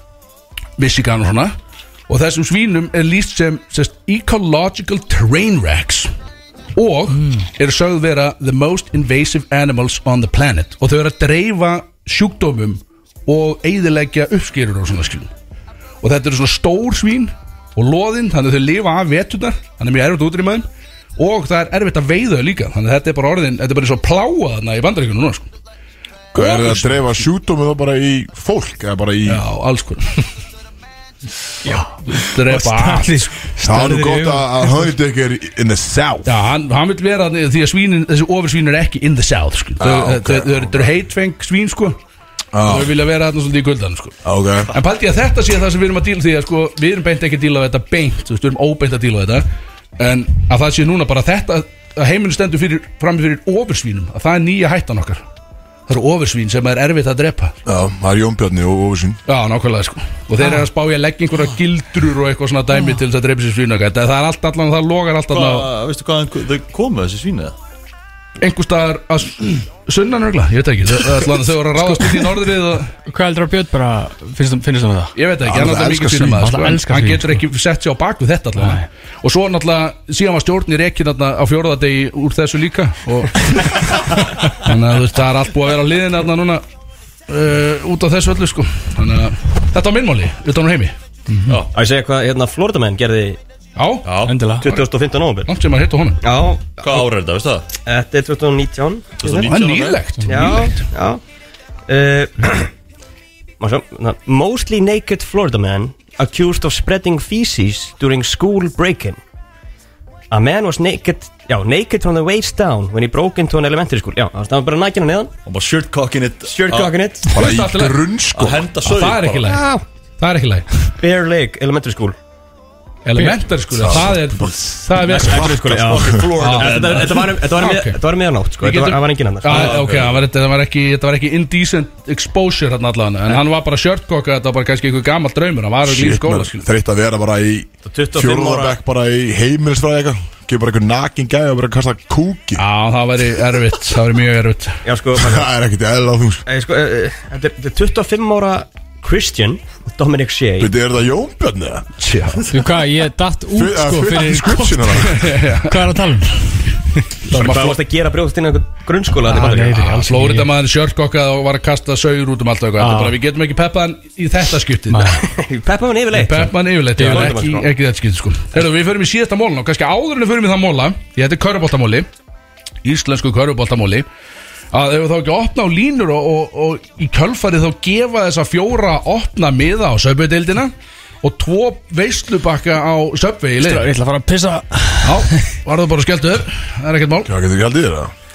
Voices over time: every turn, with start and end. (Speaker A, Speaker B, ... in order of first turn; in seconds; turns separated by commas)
Speaker A: 0.8-1.5, Speaker A: 2.1-6.1, Speaker A: 6.7-15.3, Speaker A: 16.0-20.6, Speaker A: 21.2-25.5, Speaker B: 26.3-29.4, Speaker A: 26.3-27.1, Speaker A: 29.2-30.2, Speaker C: 31.6-34.8, Speaker A: 32.1-33.3, Speaker B: 33.6-36.3, Speaker A: 36.2-42.0, Speaker B: 39.8-40.9, Speaker B: 42.5-42.9, Speaker A: 42.6-44.2, Speaker B: 44.2-44.7, Speaker A: 44.7-49.5, Speaker A: 50.0-55.2, Speaker A: 55.9-57.5, Speaker B: 57.6-59.2, Speaker A: 59.3-65.7, Speaker D: 65.3-67.5, Speaker A: 68.4-72.9, Speaker C: 71.8-72.3, Speaker C: 73.1-75.1, Speaker A: 75.2-86.6, Speaker B: 75.4-76.5, Speaker C: 76.3-77.4, Speaker C: 78.6-78.8, Speaker A: 87.3-90.9, Speaker C: 91.3-91.5, Speaker E: 91.7-93.4, Speaker A: 93.8-94.0, Speaker D: 94.0-94.3, Speaker C: 94.2-94.7, Speaker E: 94.6-95.5, Speaker A: 95.5-96.2, Speaker E: 96.2-97.1, Speaker D: 96.8-97.7, Speaker E: 97.8-99.5, Speaker D: 99.2-100.0, Speaker A: 99.4-100.8, Speaker C: 100.2-100.6, Speaker E: 100.3-101.2, Speaker E: 101.9-102.7, Speaker E: 103.6-109.2, Speaker E: 110.3-115.3, Speaker D: 115.5-117.0, Speaker E: 116.5-117.3, Speaker B: 117.3-118.7, Speaker A: 117.3-118.1, Speaker D: 118.3-119.5, Speaker A: 118.8-119.6, Speaker E: 119.4-119.8, Speaker A: 120.2-120.8, Speaker E: 121.0-122.2, Speaker A: 123.0-125.5, Speaker B: 123.7-126.3, Speaker E: 125.0-129.8, Speaker D: 125.6-127.4, Speaker A: 126.4-128.0, Speaker A: 128.6-136.7, Speaker D: 129.5-130.2, Speaker B: 135.8-142.6, Speaker E: 137.8-138.8, Speaker A: 142.6-144.8, Speaker E: 144.8-145.5, Speaker B: 145.2-146.4, Speaker E: 146.5-150.7, Speaker B: 150.6-151.9, Speaker A: 152.0-152.4, Speaker C: 152.5-157.0, Speaker B: 153.5-155.3, Speaker A: 155.0-155.9, Speaker A: 157.3-157.8, Speaker E: 157.3-159.9, Speaker C: 159.2-160.5, Speaker A: 159.7-165.2, Speaker C: 162.8-163.2, Speaker C: 164.9-165.2, Speaker E: 165.3-167.7, Speaker A: 166.1-172.1, Speaker C: 167.0-167.3, Speaker A: 172.8-174.1, Speaker A: 174.7-183.9, Speaker C: 183.6-185.4, Speaker A: 185.0-187.3, Speaker B: 187.2-188.1